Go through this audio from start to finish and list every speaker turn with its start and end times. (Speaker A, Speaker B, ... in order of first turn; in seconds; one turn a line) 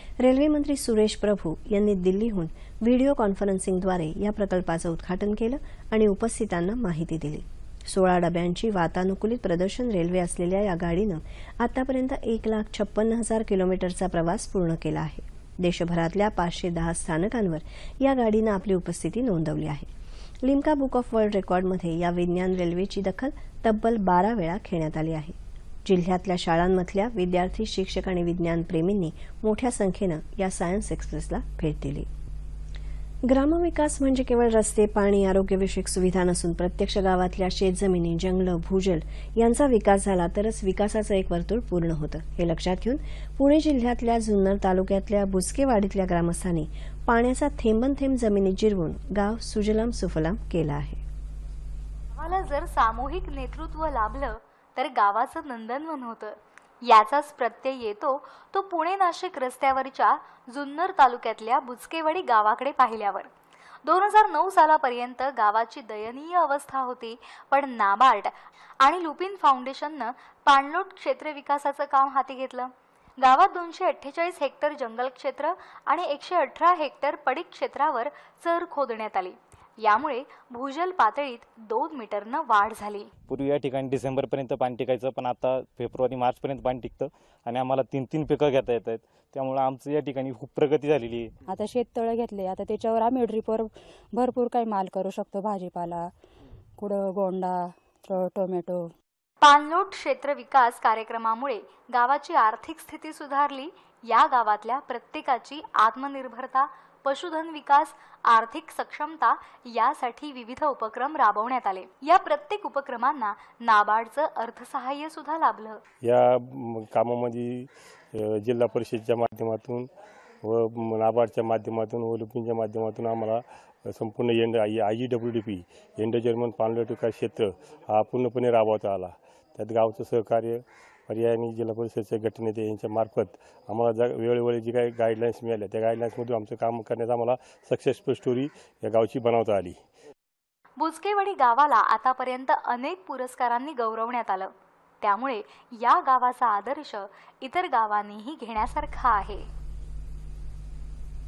Speaker A: 0.2-19.9
Speaker A: 20.4-32.1
Speaker A: 33.2-51.0
Speaker B: 52.2-63.3
Speaker B: 63.8-83.1
Speaker C: 83.3-91.3
Speaker D: 91.4-96.1
Speaker D: 96.8-98.9
Speaker B: 99.4-115.8
Speaker E: 116.0-119.9
Speaker E: 120.4-139.8
Speaker B: 140.8-149.5